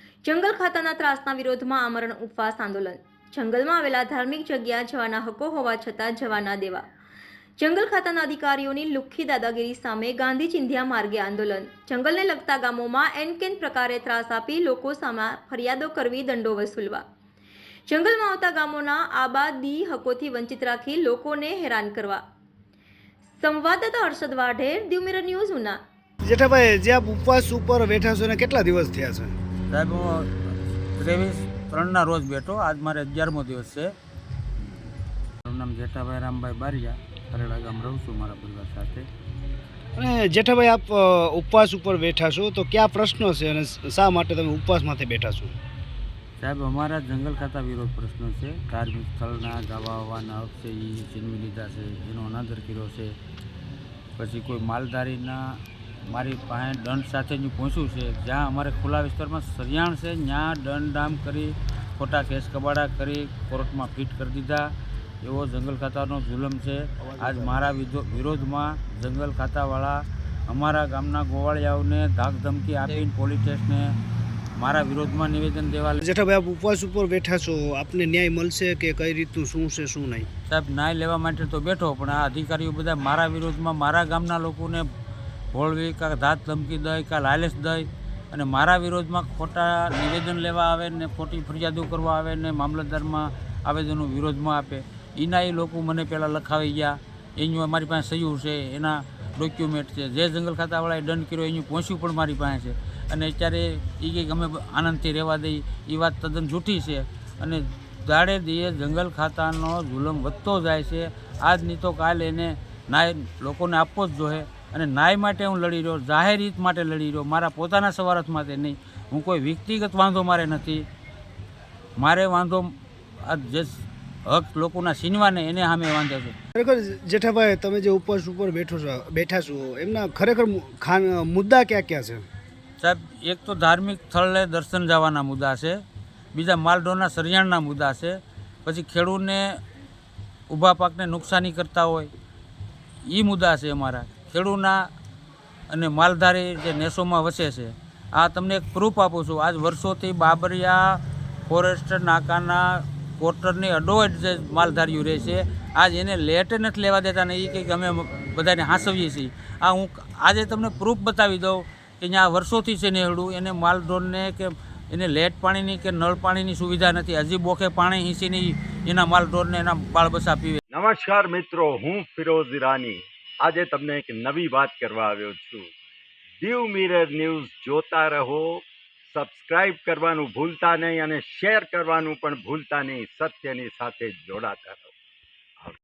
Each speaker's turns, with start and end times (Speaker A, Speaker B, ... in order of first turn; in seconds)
Speaker A: 0.2-6.8, 7.6-17.0, 17.9-22.2, 23.4-25.8
Speaker B: 26.2-29.3, 40.0-45.5, 67.1-67.7, 76.0-80.3, 126.5-132.2
Speaker C: 29.7-33.9, 35.4-39.1, 46.4-53.1, 54.2-55.4, 56.0-64.7, 65.2-73.9, 74.5-76.0, 80.5-84.8, 85.5-120.8, 122.0-126.3, 132.8-135.8, 136.3-139.5, 140.5-142.1, 143.1-144.8, 145.7-170.6
Speaker D: 170.7-175.7, 176.4-184.9